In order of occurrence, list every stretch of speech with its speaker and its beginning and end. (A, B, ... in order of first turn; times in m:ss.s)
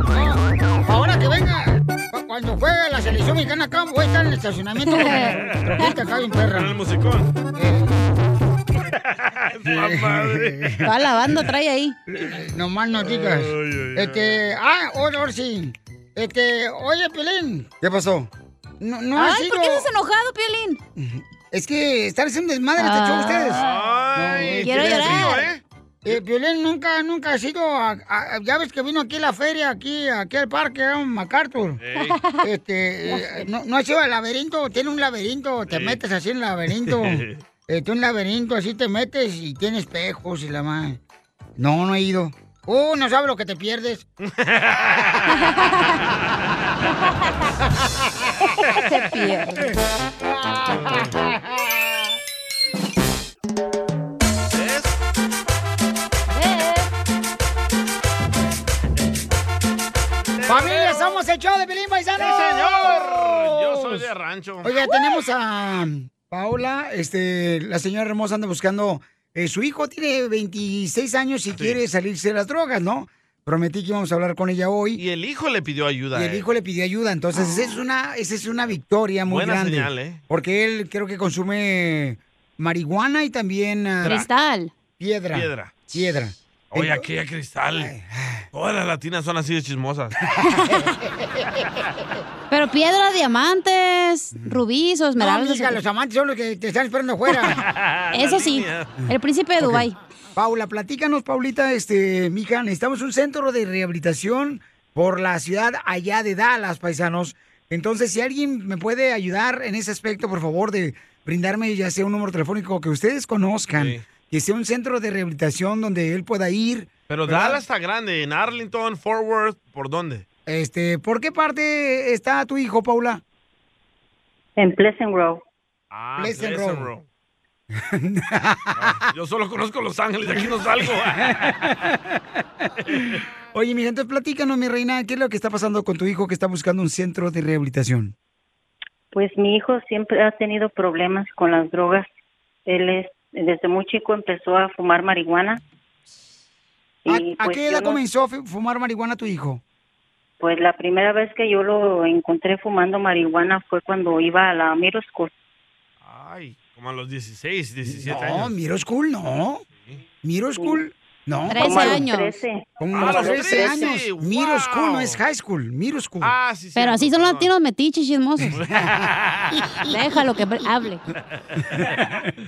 0:00.1-0:06.8 A
0:04.9-0:06.0 B
0:06.5-0:07.3 C
0:07.6-0:08.0 A
0:09.0-0:10.8 C
0:09.7-0:10.9 A
0:10.8-0:12.0 B
0:12.1-0:19.9 A
0:13.0-0:14.4 C
0:19.2-0:20.8 B
0:21.0-0:23.6 A
0:22.8-0:23.8 B
0:23.6-0:26.2 C
0:24.2-0:25.3 A
0:24.6-0:25.5 B
0:26.0-0:31.8 A
0:31.8-0:32.2 C
0:32.0-0:32.4 B
0:32.4-0:41.0 A
0:35.7-0:36.0 C
0:36.8-0:37.4 C
0:41.6-0:44.0 A
0:44.2-0:45.3 C
0:48.7-0:49.7 B
0:50.2-0:52.2 A
0:50.7-0:51.1 C
0:54.5-0:54.9 C
0:56.3-0:56.9 B
1:00.4-1:01.1 C
1:00.5-1:04.1 A
1:02.2-1:04.7 C
1:04.6-1:15.0 A
1:11.5-1:11.8 C
1:15.0-1:16.5 C
1:16.1-1:24.2 A
1:17.4-1:17.7 B
1:19.3-1:20.2 C
1:24.0-1:24.3 C
1:24.0-1:24.7 B
1:25.0-1:27.1 A
1:25.3-1:25.8 C
1:26.7-1:27.9 C
1:27.8-1:28.5 A
1:28.5-1:30.2 C
1:30.4-1:30.9 B
1:30.8-1:31.5 A
1:32.5-1:35.8 B
1:34.3-1:34.6 A
1:35.2-1:37.6 A
1:37.6-1:39.0 C
1:38.1-1:40.0 B
1:39.6-1:57.6 A
1:53.8-1:54.0 C
1:57.1-2:00.2 C
2:00.5-2:03.2 A
2:04.6-2:05.4 D
2:05.9-2:07.0 C
2:06.2-2:06.9 A
2:07.7-2:09.0 A
2:08.8-2:11.6 C
2:11.0-2:12.2 A
2:12.9-2:13.2 C
2:12.9-2:18.1 A
2:19.1-2:22.1 D
2:22.7-2:25.6 D
2:27.1-2:28.0 D
2:27.1-2:29.6 A
2:30.4-2:35.3 D
2:36.0-2:38.5 C
2:37.9-2:39.6 A
2:40.2-2:42.1 A
2:41.5-2:42.4 B
2:41.6-2:43.9 D
2:42.8-2:46.4 A
2:42.9-2:45.2 C
2:46.2-2:47.5 C
2:46.8-2:48.6 B
2:48.4-2:50.4 A
2:48.5-2:49.6 C
2:49.9-2:51.0 B
2:51.5-2:52.0 C
2:51.8-2:52.3 A